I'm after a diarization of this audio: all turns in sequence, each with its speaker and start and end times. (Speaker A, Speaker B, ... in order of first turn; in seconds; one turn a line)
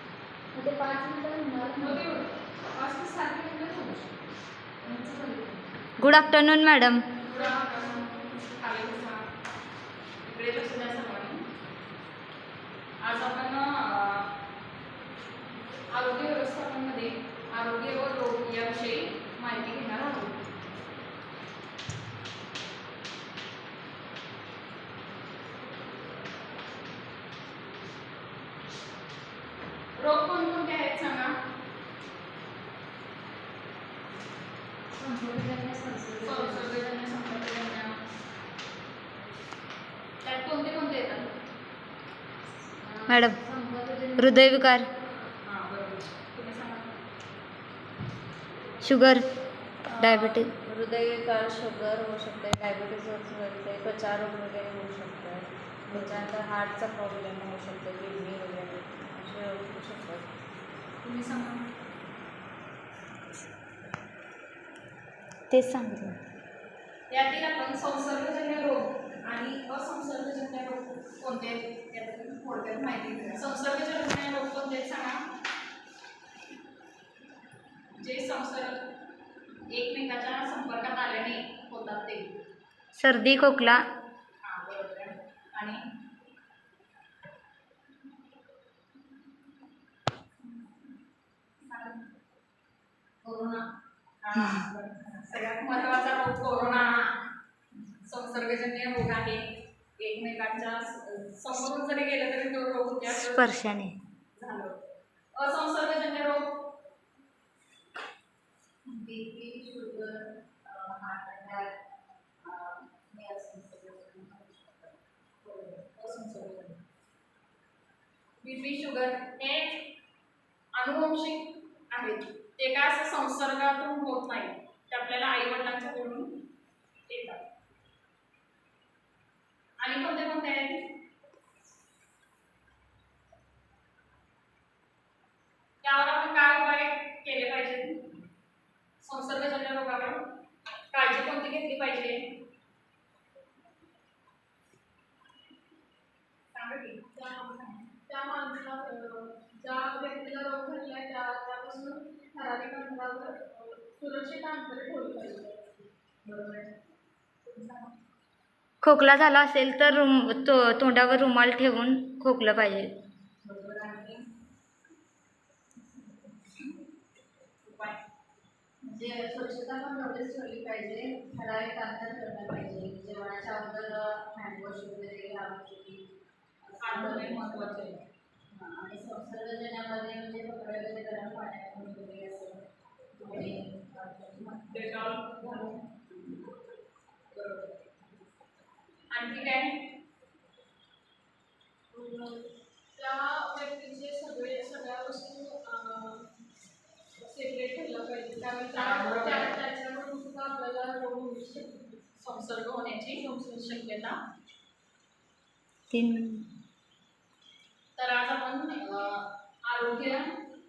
Speaker A: 0.5-2.1
Speaker B: 1.8-4.2
Speaker B: 4.8-5.6
Speaker C: 6.0-7.0
Speaker B: 7.2-9.2
Speaker B: 10.2-11.4
Speaker B: 13.0-14.3
Speaker B: 15.9-20.3
Speaker B: 30.0-31.3
Speaker A: 35.0-36.7
Speaker B: 36.2-37.9
Speaker B: 40.2-41.3
Speaker A: 42.8-44.9
Speaker C: 43.1-43.4
Speaker C: 44.2-44.9
Speaker B: 45.4-46.9
Speaker C: 48.8-49.3
Speaker C: 49.9-50.5
Speaker B: 50.0-50.4
Speaker A: 50.4-60.3
Speaker B: 61.0-61.6
Speaker C: 65.5-66.2
Speaker B: 67.1-75.2
Speaker B: 78.0-78.8
Speaker B: 79.7-82.3
Speaker C: 83.0-83.8
Speaker B: 84.4-85.8
Speaker B: 91.7-92.0
Speaker B: 93.3-93.6
Speaker B: 94.2-97.1
Speaker B: 98.0-99.4
Speaker B: 100.0-103.6
Speaker C: 103.2-103.9
Speaker B: 104.3-104.7
Speaker B: 105.3-106.5
Speaker A: 108.8-111.7
Speaker A: 112.4-115.0
Speaker B: 115.4-116.8
Speaker B: 118.4-119.8
Speaker B: 120.8-126.3
Speaker B: 127.1-127.4
Speaker B: 129.8-130.8
Speaker B: 135.8-138.0
Speaker B: 139.0-140.2
Speaker B: 140.9-142.2
Speaker B: 146.5-147.1
Speaker D: 147.1-155.8
Speaker A: 156.2-156.7
Speaker C: 158.8-162.9
Speaker A: 163.4-164.2
Speaker B: 167.6-168.0
Speaker A: 168.8-176.1
Speaker A: 176.6-177.6
Speaker B: 176.8-178.0
Speaker A: 178.5-182.6
Speaker A: 183.2-186.4
Speaker B: 184.7-185.8
Speaker B: 187.3-187.7
Speaker B: 189.1-189.8
Speaker D: 191.9-196.3
Speaker D: 197.2-202.0
Speaker B: 198.7-199.6
Speaker B: 202.2-204.2
Speaker C: 205.9-206.4
Speaker B: 208.0-210.2